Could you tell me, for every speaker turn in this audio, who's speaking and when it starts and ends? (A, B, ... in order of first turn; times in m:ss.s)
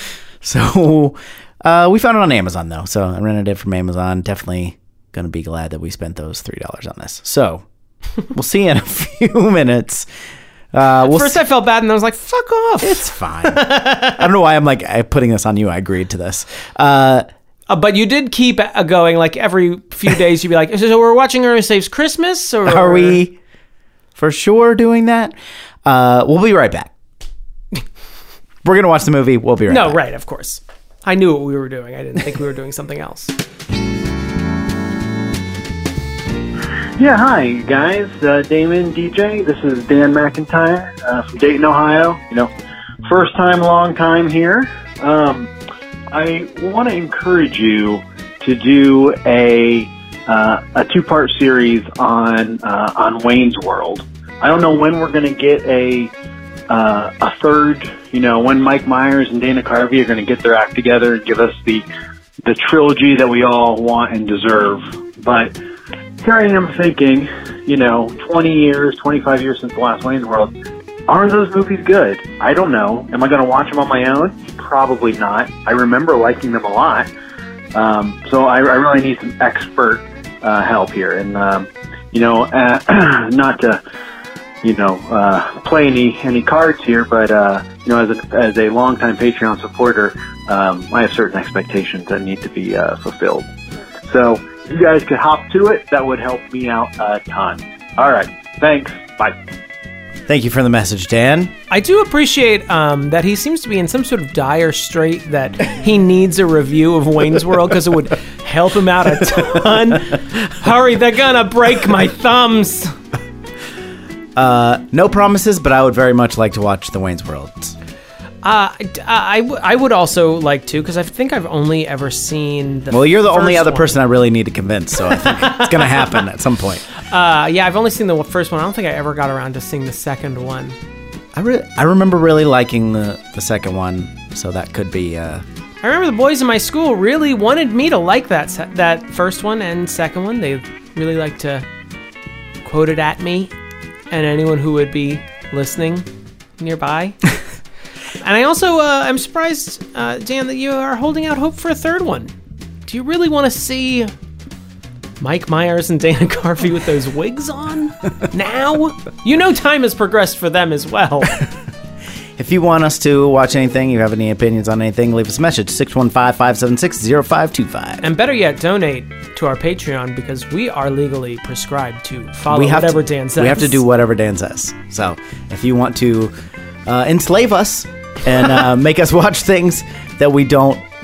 0:00.4-0:07.6 A
0:08.3-0:10.1 A
0:10.7-0:11.4 A
0:11.0-0:14.3 B
0:12.8-0:17.2 A
0:17.7-0:23.2 B
0:22.6-0:23.4 A
0:24.2-0:25.3 A
0:25.8-0:26.9 A
0:28.6-0:30.0 A
0:29.7-0:33.3 B
0:37.0-0:42.5 C
0:43.0-0:45.5 C
0:46.1-0:56.1 C
0:56.7-1:01.8 C
1:02.4-1:05.5 C
1:06.2-1:10.5 C
1:11.1-1:17.1 C
1:17.7-1:23.8 C
1:24.6-1:33.5 C
1:34.1-1:39.4 C
1:40.3-1:41.5 A
1:41.7-1:53.0 B
1:54.4-1:57.7 A
1:58.4-2:03.9 B
2:02.9-2:06.8 A
2:05.1-2:06.2 B
2:07.0-2:10.8 B
2:11.3-2:15.4 A
2:15.8-2:21.6 B
2:22.6-2:23.5 B
2:24.1-2:27.2 B
2:28.2-2:32.3 B
2:32.8-2:34.1 B
2:35.2-2:41.4 B
2:42.4-2:48.0 A
2:48.0-2:53.8 B
2:52.5-2:56.3 A
2:56.8-3:00.8 A